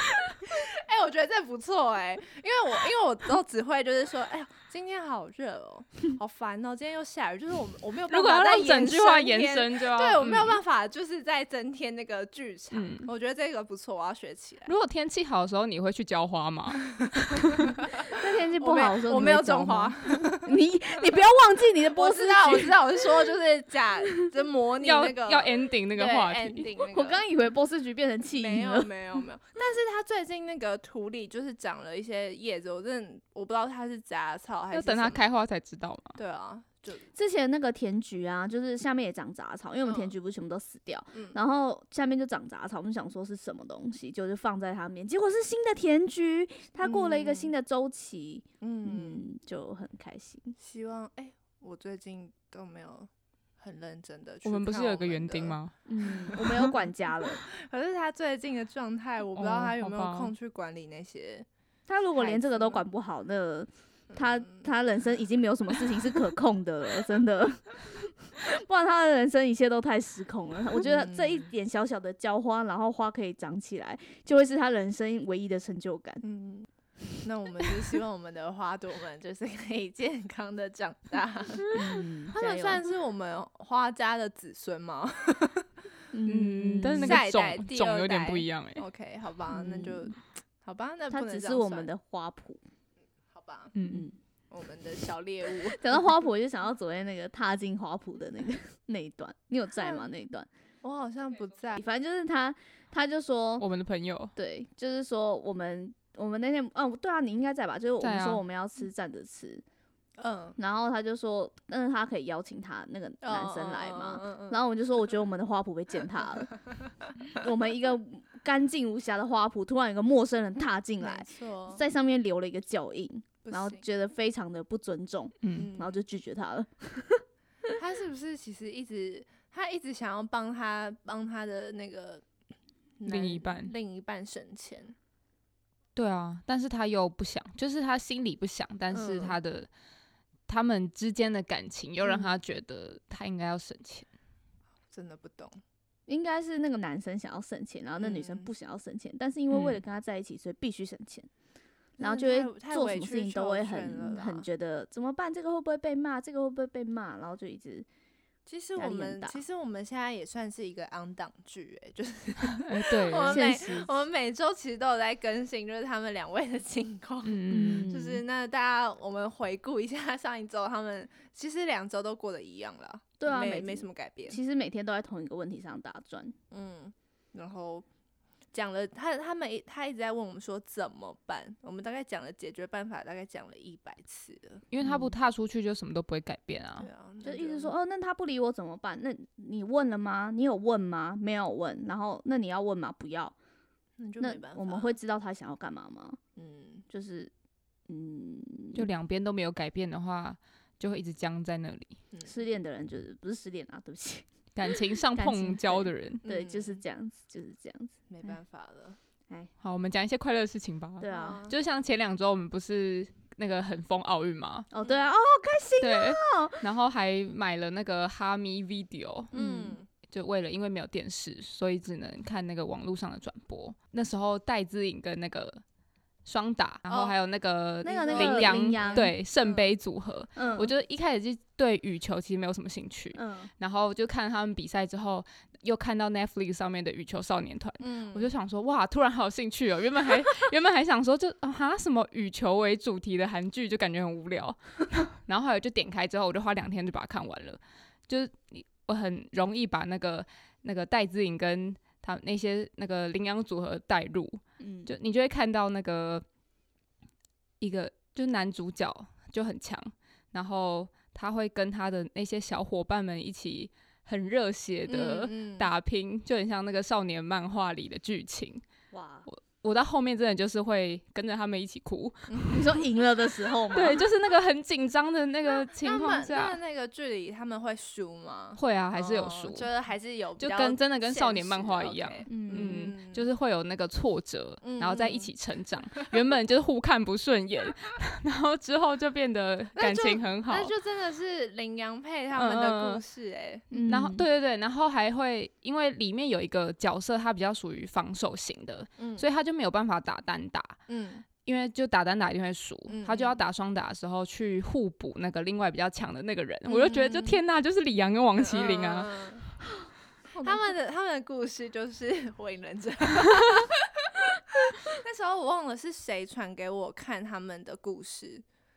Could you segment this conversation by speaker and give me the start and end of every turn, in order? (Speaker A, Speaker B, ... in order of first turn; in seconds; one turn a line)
Speaker A: 0.4-14.7
Speaker B: 8.1-10.6
Speaker B: 12.7-13.1
Speaker B: 14.7-17.6
Speaker A: 16.9-20.6
Speaker C: 18.1-22.8
Speaker A: 21.9-27.2
Speaker B: 24.8-26.7
Speaker C: 26.9-29.2
Speaker A: 28.4-35.2
Speaker B: 34.7-36.2
Speaker A: 36.1-37.0
Speaker C: 37.1-50.5
Speaker A: 39.9-40.1
Speaker A: 41.1-41.4
Speaker A: 46.8-47.5
Speaker A: 48.6-49.2
Speaker A: 50.6-56.4
Speaker B: 54.4-55.7
Speaker C: 55.9-57.4
Speaker B: 56.3-56.7
Speaker A: 57.5-61.5
Speaker B: 59.3-60.3
Speaker C: 61.9-76.2
Speaker A: 62.1-62.8
Speaker A: 64.1-64.6
Speaker A: 70.8-71.5
Speaker A: 76.2-76.7
Speaker A: 77.2-81.8
Speaker C: 81.7-82.8
Speaker A: 82.3-85.7
Speaker C: 86.1-87.2
Speaker B: 86.3-88.8
Speaker A: 87.0-91.9
Speaker C: 89.5-90.1
Speaker C: 91.1-92.6
Speaker A: 93.3-93.7
Speaker B: 93.7-94.0
Speaker C: 93.8-94.2
Speaker A: 94.5-95.8
Speaker C: 95.7-100.5
Speaker A: 100.8-101.8
Speaker C: 101.8-103.7
Speaker B: 103.6-104.3
Speaker C: 104.3-109.6
Speaker B: 108.0-108.4
Speaker A: 110.2-110.6
Speaker C: 110.6-116.5
Speaker A: 113.2-114.6
Speaker C: 117.3-127.2
Speaker A: 121.0-121.8
Speaker A: 123.4-123.8
Speaker B: 125.4-125.7
Speaker A: 125.5-126.0
Speaker A: 127.8-132.2
Speaker A: 133.0-134.9
Speaker B: 133.1-133.7
Speaker B: 135.9-139.7
Speaker A: 138.9-139.4
Speaker B: 140.5-144.1
Speaker A: 142.0-142.3
Speaker A: 144.9-145.6
Speaker C: 146.1-151.3
Speaker A: 148.0-148.5
Speaker B: 149.5-149.8
Speaker A: 152.0-154.4
Speaker C: 152.0-157.9
Speaker A: 158.4-174.4
Speaker C: 158.8-159.4
Speaker B: 162.7-163.6
Speaker C: 163.3-163.9
Speaker B: 167.2-167.9
Speaker C: 167.5-168.2
Speaker C: 173.2-176.3
Speaker A: 176.5-177.8
Speaker A: 178.5-184.6
Speaker B: 184.7-186.9
Speaker C: 184.8-185.2
Speaker A: 186.8-187.7
Speaker C: 187.2-193.3
Speaker A: 194.0-194.9
Speaker C: 194.2-196.2
Speaker A: 196.3-196.8
Speaker C: 196.9-197.3
Speaker C: 197.9-198.9
Speaker B: 198.7-202.0
Speaker C: 202.2-208.3
Speaker B: 204.5-206.2
Speaker A: 206.2-206.8
Speaker A: 208.1-209.0
Speaker B: 209.6-214.7
Speaker C: 211.0-211.4
Speaker A: 211.1-211.5
Speaker C: 214.7-216.7
Speaker B: 215.8-219.3
Speaker C: 219.3-219.8
Speaker A: 219.3-219.9
Speaker B: 219.9-225.6
Speaker B: 226.2-256.2
Speaker A: 226.9-227.2
Speaker C: 227.8-229.1
Speaker A: 227.8-229.7
Speaker C: 230.3-230.7
Speaker C: 233.1-233.5
Speaker A: 237.8-238.3
Speaker C: 254.6-254.9
Speaker B: 257.6-268.6
Speaker A: 264.9-265.7
Speaker C: 268.9-269.3
Speaker B: 269.3-272.8
Speaker A: 272.3-272.8
Speaker C: 272.5-274.0
Speaker B: 273.7-276.6
Speaker A: 275.4-283.2
Speaker B: 278.6-279.7
Speaker B: 280.4-290.7
Speaker C: 282.3-282.8
Speaker A: 284.6-285.3
Speaker A: 289.8-293.6
Speaker B: 292.3-293.0
Speaker C: 293.7-294.3
Speaker B: 293.8-300.8
Speaker A: 299.0-299.2
Speaker A: 300.9-301.2
Speaker B: 301.4-309.1
Speaker A: 302.9-303.4
Speaker A: 306.7-307.4
Speaker A: 308.4-309.5
Speaker A: 310.4-318.4